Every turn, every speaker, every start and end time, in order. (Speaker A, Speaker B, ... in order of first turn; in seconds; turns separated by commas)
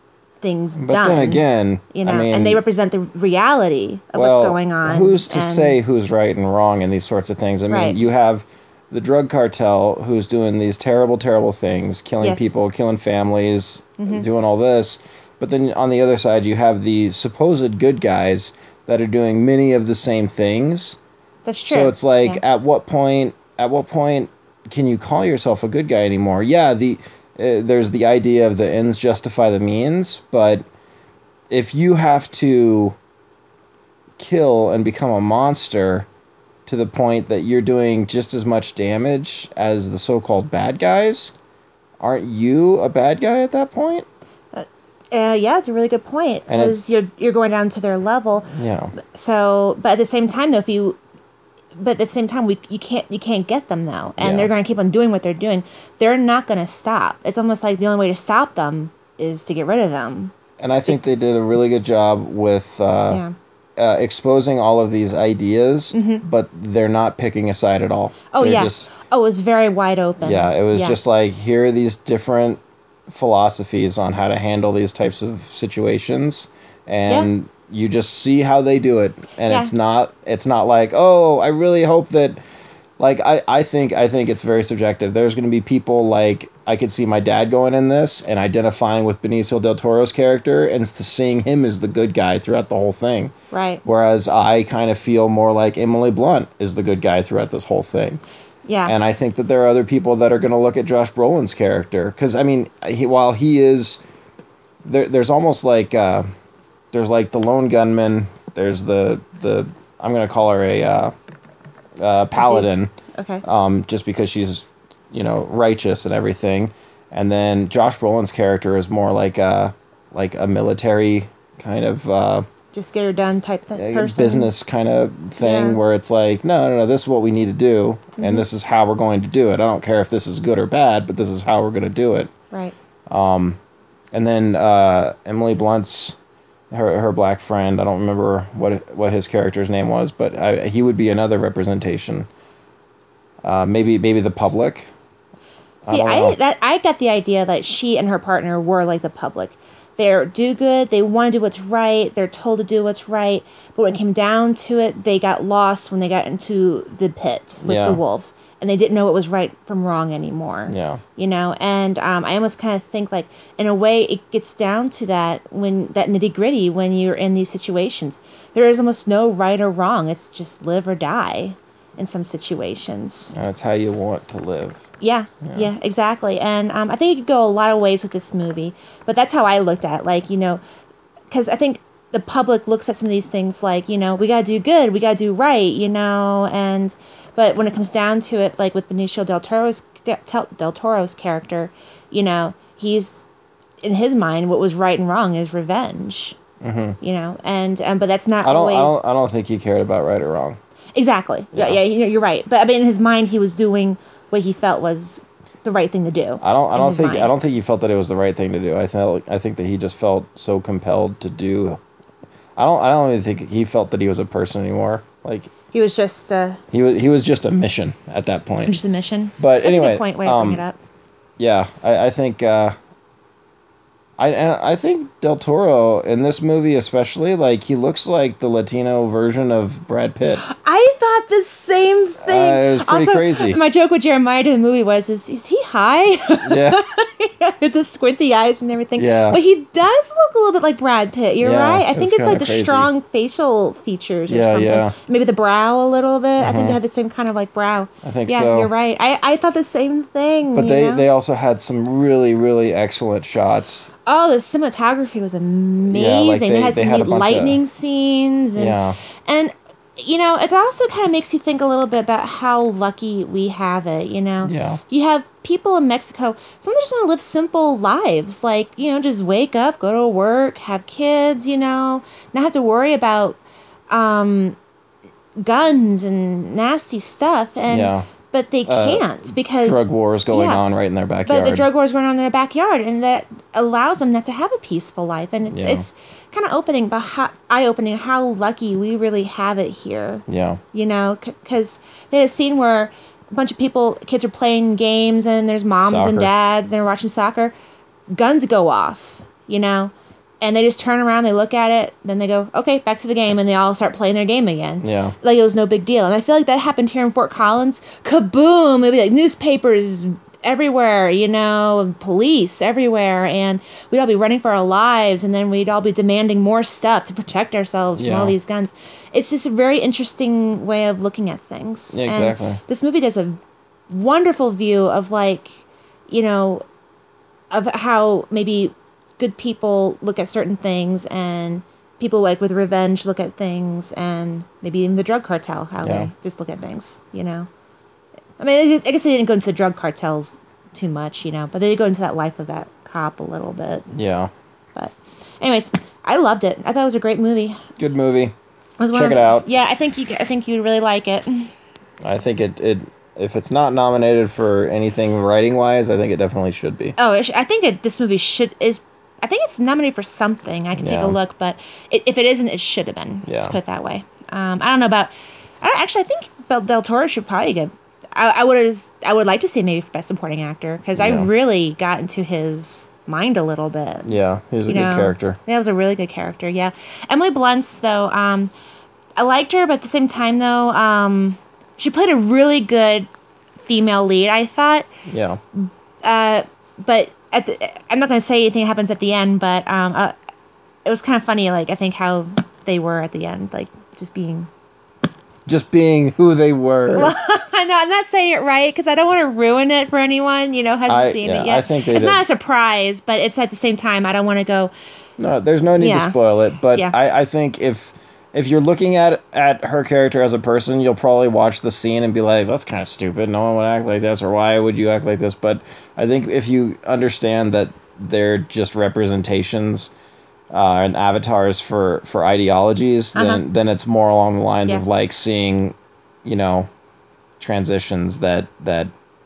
Speaker A: 0.4-5.8, Speaker B: 0.8-2.6, Speaker B: 4.2-21.0, Speaker A: 7.7-8.0, Speaker A: 12.2-12.5, Speaker A: 14.0-14.2, Speaker A: 21.4-22.4, Speaker B: 21.7-30.6, Speaker B: 31.5-33.0, Speaker B: 34.2-36.1, Speaker B: 36.6-41.3, Speaker B: 42.0-44.0, Speaker A: 44.5-51.0, Speaker B: 46.5-46.8, Speaker B: 48.5-48.9, Speaker A: 51.8-60.3, Speaker B: 54.2-54.5, Speaker B: 60.6-63.2, Speaker B: 63.8-68.9, Speaker A: 65.9-66.2, Speaker A: 68.3-71.0, Speaker B: 70.2-82.4, Speaker A: 79.5-79.7, Speaker B: 83.0-93.3, Speaker A: 93.5-93.8, Speaker B: 93.8-98.2, Speaker A: 98.6-98.9, Speaker B: 98.8-104.0, Speaker B: 104.8-106.3, Speaker B: 106.9-111.1, Speaker B: 112.0-112.9, Speaker A: 112.3-113.4, Speaker B: 113.4-122.5, Speaker A: 122.7-124.5, Speaker B: 123.8-132.3, Speaker A: 125.4-125.8, Speaker A: 128.2-128.4, Speaker B: 133.1-133.6, Speaker B: 134.1-136.2, Speaker B: 136.7-142.3, Speaker B: 143.4-144.9, Speaker B: 145.8-146.4, Speaker A: 145.8-173.4, Speaker B: 157.6-158.0, Speaker B: 160.7-161.0, Speaker B: 173.3-174.8, Speaker A: 175.0-180.6, Speaker B: 175.4-175.7, Speaker A: 181.3-193.2, Speaker A: 193.8-196.4, Speaker B: 196.6-197.0, Speaker A: 197.0-199.0, Speaker B: 198.4-200.6, Speaker A: 200.9-207.3, Speaker B: 201.5-201.8, Speaker B: 206.4-211.8, Speaker B: 212.6-215.5, Speaker A: 215.7-216.6, Speaker B: 216.7-218.8, Speaker A: 218.6-220.8, Speaker B: 219.4-220.6, Speaker B: 221.4-222.7, Speaker B: 224.2-230.4, Speaker A: 230.4-251.1, Speaker B: 232.2-233.6, Speaker B: 236.4-236.8, Speaker B: 238.9-239.4, Speaker B: 241.4-242.9, Speaker B: 244.3-244.9, Speaker B: 246.4-246.8, Speaker B: 248.0-248.7, Speaker B: 250.5-253.9, Speaker A: 254.1-273.4, Speaker B: 255.9-257.6, Speaker B: 258.6-259.0, Speaker B: 264.4-264.8, Speaker A: 273.9-274.6, Speaker A: 275.4-280.6, Speaker B: 277.7-278.1, Speaker B: 278.6-279.1, Speaker B: 279.6-281.7, Speaker A: 281.2-297.5, Speaker B: 285.5-285.9, Speaker B: 290.3-290.6, Speaker B: 295.8-296.3, Speaker A: 298.1-323.4, Speaker B: 304.8-305.1, Speaker B: 318.0-318.3, Speaker B: 321.9-322.6, Speaker A: 323.9-326.6, Speaker A: 327.5-337.5, Speaker B: 335.8-336.1, Speaker A: 338.4-343.9, Speaker B: 343.9-344.3, Speaker A: 344.7-347.6, Speaker B: 347.8-348.3, Speaker A: 348.8-351.5, Speaker B: 348.9-349.4, Speaker B: 352.0-356.9, Speaker A: 357.0-374.1, Speaker B: 360.8-361.2, Speaker B: 363.2-363.6, Speaker B: 370.9-371.3, Speaker B: 374.1-375.4, Speaker A: 374.6-378.5, Speaker A: 379.2-383.1, Speaker A: 383.6-384.9, Speaker B: 385.1-385.4, Speaker A: 385.5-390.1, Speaker A: 390.9-394.5, Speaker B: 395.5-397.1, Speaker A: 396.9-404.7, Speaker B: 400.9-402.2, Speaker B: 405.2-419.9, Speaker A: 405.8-406.1, Speaker B: 420.5-426.7, Speaker A: 423.1-423.4, Speaker B: 427.4-428.9